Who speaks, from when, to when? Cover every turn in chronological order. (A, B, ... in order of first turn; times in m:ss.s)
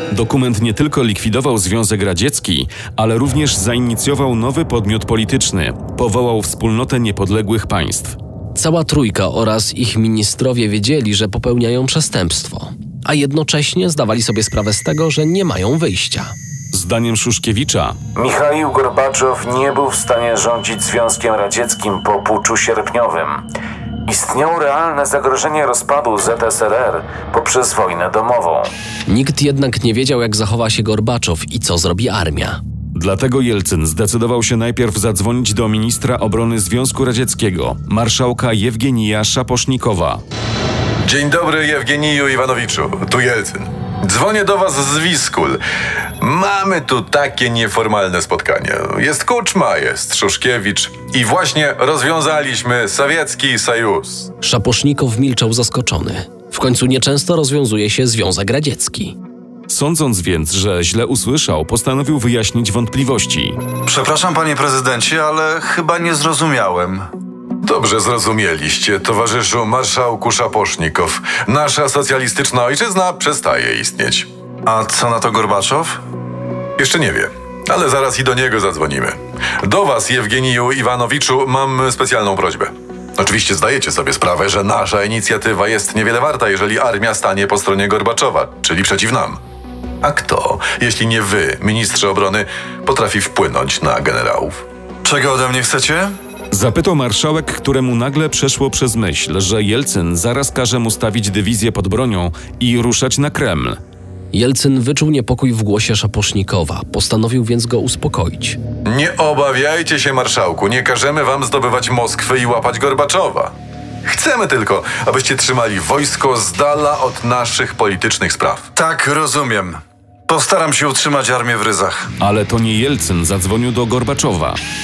0:00.1-0:08.2 A
0:08.5-0:16.3 B
0:16.7-0:18.0 A
0:18.1-0:23.4 C
0:24.0-0:28.7 C
0:29.1-0:32.6 B
0:32.9-0:40.2 A
0:41.0-0:45.6 D
0:46.2-0:54.3 D
0:54.4-0:59.2 B
0:59.7-1:03.6 A
1:03.9-1:07.1 E
1:07.6-1:14.3 D
1:14.6-1:16.0 E
1:16.8-1:29.4 D
1:30.0-1:34.6 D
1:35.0-1:36.1 E
1:36.5-1:43.8 A
1:44.3-1:48.6 B
1:48.8-1:53.5 D
1:54.0-1:58.7 D
1:58.8-2:02.1 E
2:02.2-2:04.6 A